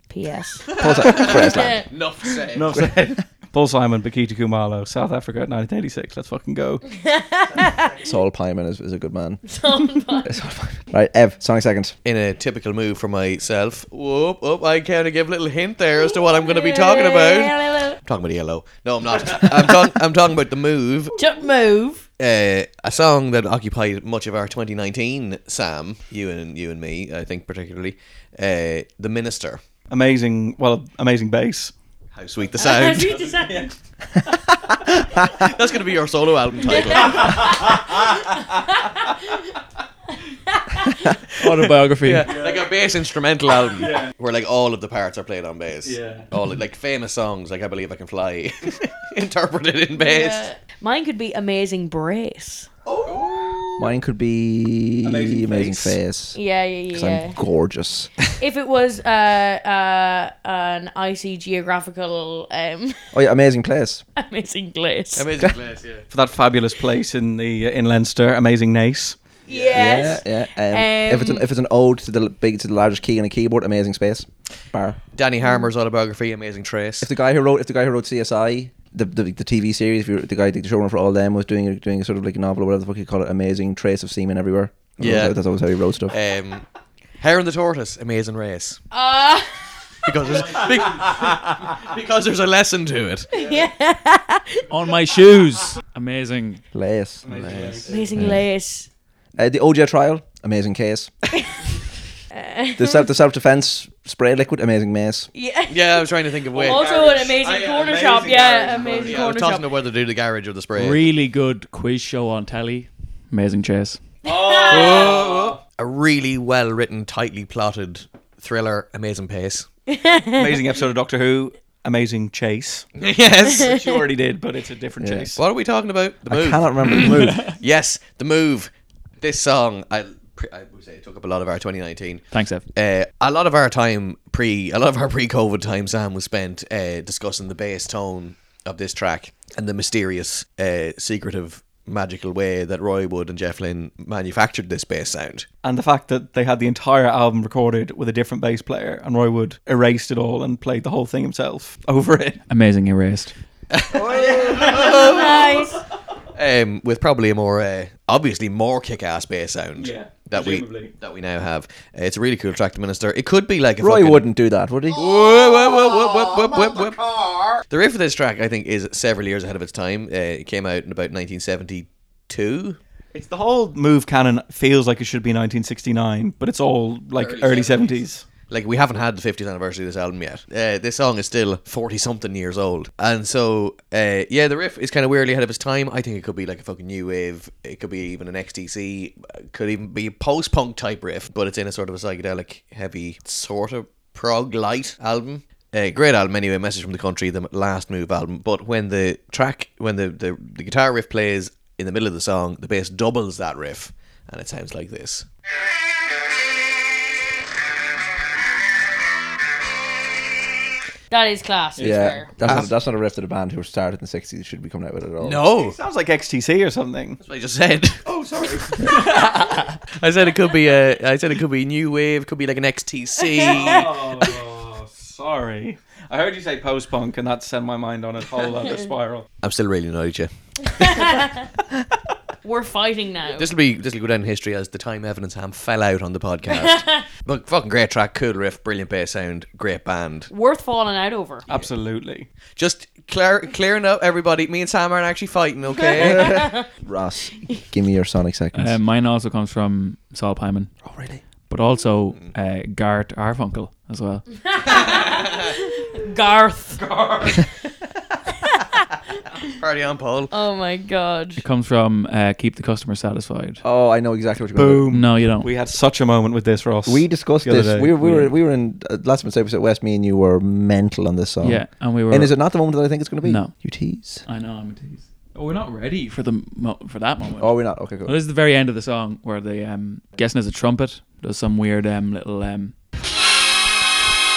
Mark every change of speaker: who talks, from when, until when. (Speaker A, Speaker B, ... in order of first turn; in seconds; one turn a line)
Speaker A: 0.1-2.4
Speaker B: 0.8-1.8
Speaker C: 0.8-2.8
Speaker D: 2.5-6.8
Speaker B: 2.7-3.2
Speaker A: 6.9-7.9
Speaker B: 8.0-9.4
Speaker A: 9.4-10.3
Speaker B: 10.2-11.9
Speaker C: 12.0-21.1
Speaker A: 15.9-18.0
Speaker A: 21.1-22.0
Speaker C: 22.2-29.6
Speaker D: 29.9-31.7
Speaker C: 32.1-33.3
Speaker A: 32.6-33.7
Speaker C: 35.3-37.7
Speaker A: 36.6-39.5
Speaker A: 40.5-41.1
Speaker E: 41.4-42.3
Speaker C: 42.0-50.5
Speaker D: 42.2-42.7
Speaker D: 43.8-44.1
Speaker D: 45.8-46.3
Speaker A: 49.9-52.7
Speaker D: 52.9-53.8
Speaker C: 53.1-53.4
Speaker B: 53.8-56.4
Speaker D: 55.0-56.0
Speaker A: 56.3-57.4
Speaker B: 56.9-58.1
Speaker A: 58.4-63.0
Speaker B: 63.1-64.0
Speaker A: 64.2-65.3
Speaker C: 65.1-66.1
Speaker D: 66.1-69.2
Speaker C: 69.5-70.1
Speaker A: 69.5-71.5
Speaker B: 69.7-75.0
Speaker C: 75.1-77.1
Speaker B: 77.0-86.2
Speaker C: 85.0-85.4
Speaker C: 86.1-86.6
Speaker C: 87.2-88.8
Speaker A: 88.9-89.5
Speaker C: 90.0-93.3
Speaker A: 93.3-94.6
Speaker E: 94.7-96.6
Speaker B: 96.7-98.4
Speaker D: 97.2-98.2
Speaker C: 97.3-98.1
Speaker A: 97.9-98.9
Speaker B: 99.3-101.1
Speaker A: 102.3-103.1
Speaker B: 102.8-105.3
Speaker A: 105.3-109.7
Speaker C: 105.7-111.0
Speaker D: 106.6-106.9
Speaker D: 107.9-109.2
Speaker E: 110.7-114.0
Speaker D: 114.2-115.6
Speaker A: 114.3-115.1
Speaker C: 114.5-119.7
Speaker A: 119.9-120.6
Speaker D: 120.3-122.8
Speaker C: 123.0-123.8
Speaker D: 123.6-125.4
Speaker B: 125.0-125.3
Speaker C: 125.3-145.5
Speaker B: 126.3-127.5
Speaker E: 132.3-132.6
Speaker D: 145.6-152.4
Speaker E: 152.5-153.3
Speaker C: 153.7-155.4
Speaker D: 154.1-155.2
Speaker A: 154.6-155.8
Speaker C: 156.3-164.3
Speaker D: 159.8-160.9
Speaker B: 163.8-165.0
Speaker C: 164.9-172.8
Speaker D: 173.1-178.2
Speaker C: 177.1-205.3
Speaker A: 211.1-212.3
Speaker D: 211.8-212.7
Speaker B: 211.8-215.5
Speaker C: 215.2-215.8
Speaker D: 215.6-217.2
Speaker C: 217.2-218.0
Speaker D: 218.1-219.0
Speaker C: 218.8-219.4
Speaker C: 220.0-224.2
Speaker D: 223.4-229.3
Speaker C: 229.4-230.3
Speaker A: 230.6-231.4
Speaker A: 232.4-233.5
Speaker C: 233.3-240.3
Speaker A: 236.5-237.1
Speaker A: 240.3-241.4
Speaker D: 241.5-242.3
Speaker C: 242.6-246.4
Speaker A: 245.8-246.7
Speaker B: 245.9-248.8
Speaker E: 248.5-250.7
Speaker B: 250.8-251.2
Speaker E: 251.5-254.2
Speaker A: 254.5-256.8
Speaker C: 254.6-255.5
Speaker D: 256.9-257.4
Speaker C: 259.6-260.3
Speaker A: 260.3-261.4
Speaker E: 261.4-263.6
Speaker B: 263.6-264.9
Speaker D: 264.5-268.3
Speaker E: 264.9-265.5
Speaker B: 266.9-274.2
Speaker E: 271.4-272.3
Speaker E: 273.2-273.5
Speaker E: 274.2-282.7
Speaker B: 277.4-278.2